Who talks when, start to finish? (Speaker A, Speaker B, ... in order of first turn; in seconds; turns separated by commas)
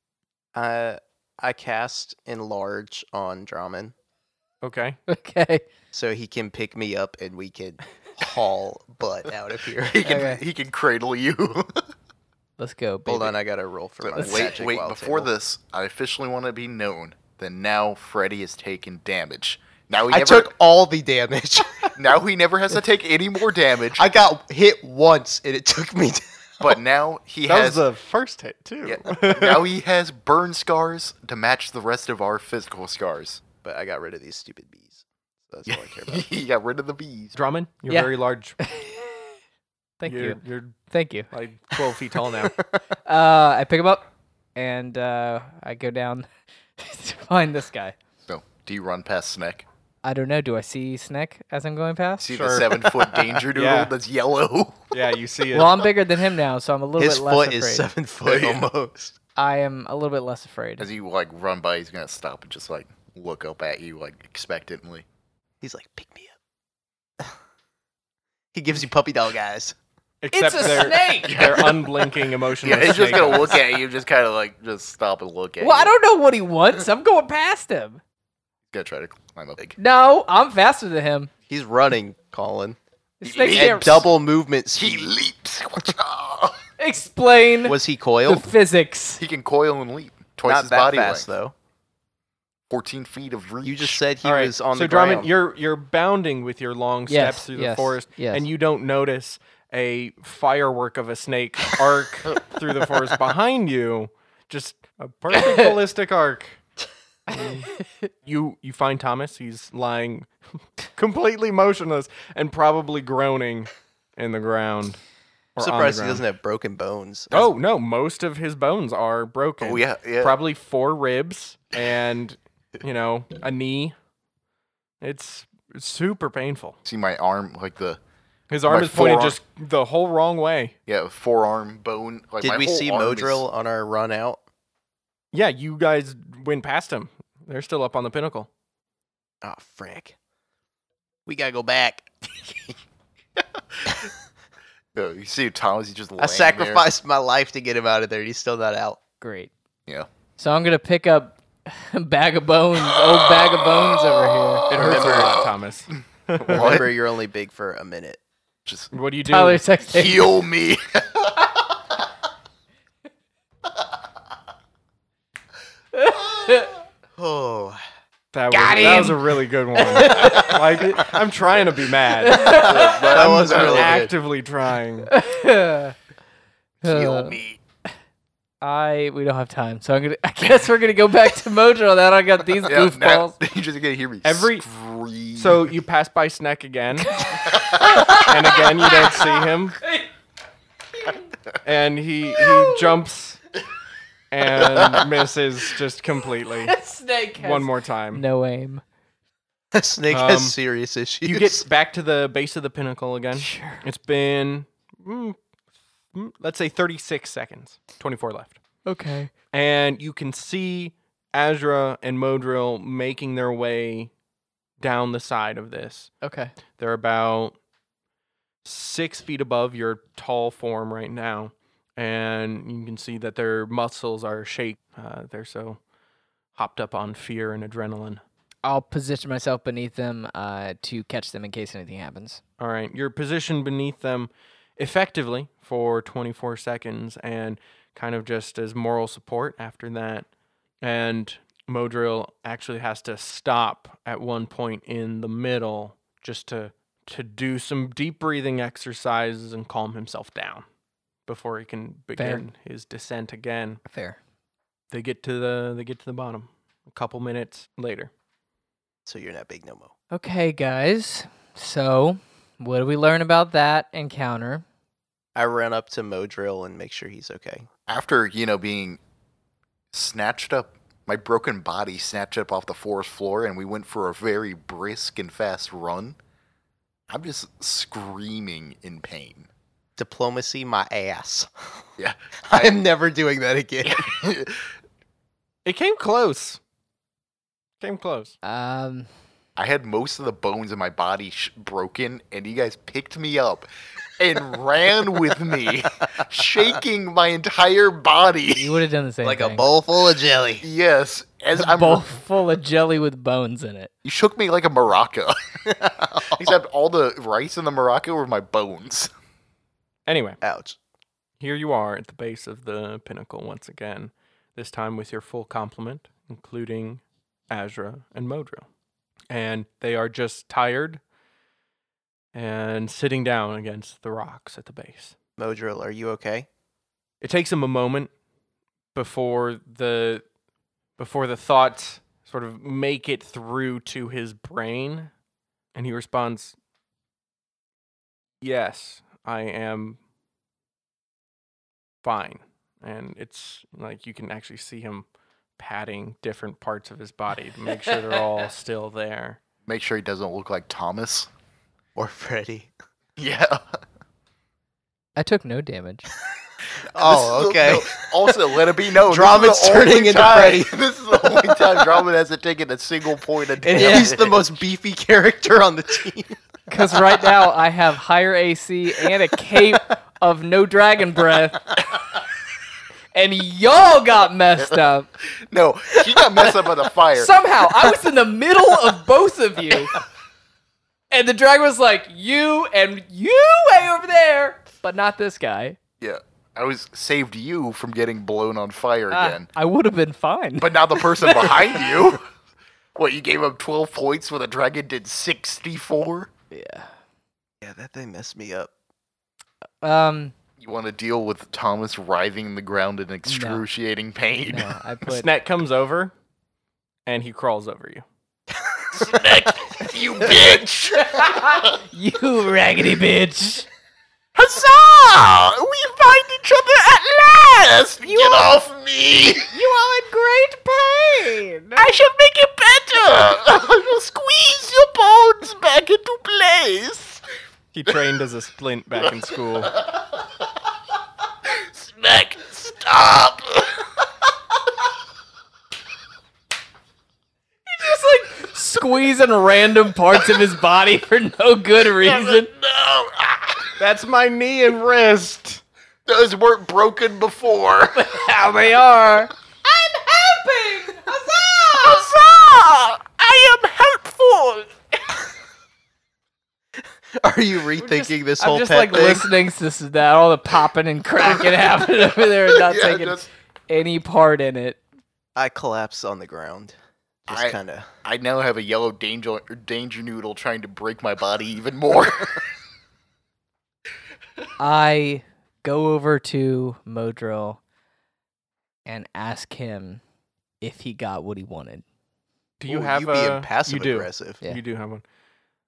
Speaker A: 0.5-3.9, Speaker B: 4.6-5.0, Speaker C: 5.1-5.6, Speaker A: 5.9-10.1, Speaker D: 9.8-11.8, Speaker C: 10.0-10.4, Speaker C: 12.6-13.3, Speaker A: 13.1-15.3, Speaker D: 14.0-20.5, Speaker C: 14.2-14.5, Speaker A: 20.1-21.9, Speaker D: 21.9-24.1, Speaker A: 23.9-26.7, Speaker D: 26.6-27.9, Speaker B: 27.4-29.6, Speaker D: 28.8-33.4, Speaker A: 33.6-36.2, Speaker D: 35.7-37.3, Speaker B: 37.4-38.6, Speaker C: 37.9-39.2, Speaker C: 40.0-40.4, Speaker B: 40.0-40.7, Speaker C: 40.9-41.3, Speaker B: 41.3-42.6, Speaker C: 43.0-48.0, Speaker D: 48.3-49.6, Speaker C: 50.0-52.3, Speaker D: 52.2-54.9, Speaker B: 52.3-52.8, Speaker B: 53.5-53.9, Speaker B: 54.9-55.8, Speaker C: 55.5-57.9, Speaker A: 57.0-59.1, Speaker D: 58.2-58.7, Speaker C: 59.4-60.9, Speaker D: 60.8-65.0, Speaker A: 65.6-66.3, Speaker A: 68.5-69.8, Speaker B: 70.2-73.6, Speaker C: 70.3-71.7, Speaker D: 71.2-71.9, Speaker D: 72.6-75.9, Speaker C: 75.6-78.0, Speaker D: 78.7-79.7, Speaker C: 79.8-81.3, Speaker A: 81.5-82.8, Speaker C: 83.2-84.0, Speaker D: 83.2-84.1, Speaker A: 83.5-85.1, Speaker D: 84.7-86.6, Speaker C: 86.8-89.2, Speaker A: 87.6-88.5, Speaker D: 89.2-91.3, Speaker A: 90.5-91.5, Speaker D: 92.7-94.0, Speaker A: 93.6-95.3, Speaker B: 94.2-106.6, Speaker C: 97.1-98.5, Speaker C: 105.3-105.7, Speaker B: 107.3-107.7, Speaker C: 107.3-107.7, Speaker B: 108.2-110.3, Speaker B: 110.8-115.0, Speaker B: 115.5-116.2, Speaker A: 115.6-117.5, Speaker B: 117.3-123.9, Speaker D: 119.6-120.3, Speaker B: 125.0-126.8, Speaker D: 126.8-128.0, Speaker B: 128.5-130.7, Speaker D: 128.6-129.4, Speaker D: 130.9-133.4, Speaker A: 132.4-134.4, Speaker B: 135.3-138.5, Speaker A: 139.4-140.2, Speaker A: 141.2-142.1, Speaker D: 143.4-144.0, Speaker D: 144.9-146.9, Speaker A: 146.2-149.0, Speaker C: 149.2-149.5, Speaker C: 150.4-154.8, Speaker D: 152.9-155.5, Speaker B: 154.7-156.9, Speaker A: 154.8-155.4, Speaker A: 156.4-158.2, Speaker D: 156.5-156.9, Speaker D: 158.7-158.9, Speaker B: 158.9-159.6, Speaker C: 159.2-160.3, Speaker D: 159.8-161.6, Speaker C: 166.0-166.7, Speaker A: 167.2-167.8, Speaker B: 168.3-175.1, Speaker C: 168.5-170.6, Speaker C: 172.2-173.1, Speaker D: 172.5-174.1, Speaker A: 172.7-174.1, Speaker C: 175.1-175.9, Speaker D: 176.8-177.6, Speaker C: 176.8-177.4, Speaker C: 178.6-183.3, Speaker D: 182.6-185.7, Speaker B: 184.2-184.7, Speaker B: 185.3-187.2, Speaker C: 187.0-190.1, Speaker D: 187.5-188.2, Speaker B: 188.0-189.8, Speaker B: 191.6-193.4, Speaker C: 192.3-192.9, Speaker B: 194.3-196.7, Speaker D: 194.5-195.0, Speaker C: 196.4-198.8, Speaker B: 197.4-198.2, Speaker A: 199.7-201.6, Speaker B: 200.1-200.6, Speaker B: 201.2-205.4, Speaker C: 203.3-203.8, Speaker B: 206.1-208.6, Speaker C: 208.8-209.3, Speaker B: 209.5-214.1, Speaker B: 214.8-216.1, Speaker C: 216.2-216.5, Speaker B: 216.8-217.5, Speaker B: 218.6-225.8, Speaker B: 226.5-228.2, Speaker C: 228.6-232.4, Speaker B: 232.6-240.3, Speaker B: 240.8-250.6, Speaker B: 251.2-253.8, Speaker C: 252.2-252.4, Speaker C: 253.8-254.2, Speaker B: 254.9-258.1, Speaker A: 259.0-259.9, Speaker C: 260.1-264.6, Speaker A: 265.3-267.7, Speaker D: 267.9-269.0, Speaker D: 269.9-276.2, Speaker D: 277.1-279.5, Speaker A: 280.0-281.8, Speaker D: 282.0-282.8, Speaker A: 282.5-284.1, Speaker D: 283.8-284.7, Speaker B: 285.6-286.6, Speaker B: 287.8-288.3, Speaker C: 288.4-289.1, Speaker D: 289.6-293.7, Speaker D: 294.2-298.8, Speaker C: 298.5-299.7, Speaker A: 299.2-300.6, Speaker D: 300.6-302.1, Speaker C: 301.6-303.9, Speaker D: 304.0-309.1, Speaker A: 305.7-306.4, Speaker B: 310.1-310.4, Speaker A: 310.4-310.8, Speaker B: 311.4-318.6, Speaker B: 319.3-321.0, Speaker B: 322.3-325.1, Speaker A: 325.4-326.5, Speaker B: 327.2-328.1, Speaker B: 328.9-330.2, Speaker B: 331.0-335.1, Speaker B: 335.7-336.5, Speaker B: 338.4-340.0, Speaker B: 342.0-345.1, Speaker B: 345.6-349.4, Speaker D: 349.6-351.3, Speaker A: 351.9-352.7, Speaker D: 353.2-353.8, Speaker C: 355.2-356.0, Speaker A: 356.7-358.4, Speaker D: 356.9-364.6, Speaker A: 359.0-361.9, Speaker A: 363.6-366.4, Speaker C: 363.7-364.1, Speaker C: 366.7-371.7, Speaker C: 373.1-375.1, Speaker D: 374.6-377.4, Speaker C: 377.1-379.9, Speaker C: 381.1-385.8, Speaker D: 386.0-389.5, Speaker C: 389.1-392.1, Speaker D: 390.6-392.2, Speaker D: 392.9-396.3, Speaker C: 396.5-396.9, Speaker A: 397.6-398.7, Speaker C: 399.8-400.3, Speaker D: 400.6-404.8, Speaker C: 403.2-403.6, Speaker C: 404.4-405.3, Speaker B: 405.1-406.1, Speaker B: 407.1-408.0, Speaker A: 408.5-409.1, Speaker D: 408.9-411.8, Speaker C: 410.9-413.7, Speaker D: 414.3-419.5, Speaker C: 418.0-418.6, Speaker C: 419.5-421.9, Speaker D: 421.8-427.2, Speaker B: 427.7-429.7, Speaker D: 429.6-430.4, Speaker D: 431.4-434.1, Speaker C: 437.7-442.5, Speaker D: 441.8-443.8, Speaker B: 443.8-445.6, Speaker D: 446.1-448.4, Speaker C: 447.9-449.3, Speaker D: 449.7-450.4, Speaker C: 450.1-452.0, Speaker D: 451.2-454.7, Speaker A: 457.2-459.3, Speaker C: 457.8-464.8, Speaker D: 461.2-463.3, Speaker A: 465.4-466.7, Speaker A: 467.2-467.9, Speaker D: 467.3-472.5, Speaker C: 474.6-477.6, Speaker C: 478.8-480.0, Speaker C: 480.6-481.8, Speaker B: 482.6-485.0, Speaker A: 482.7-484.4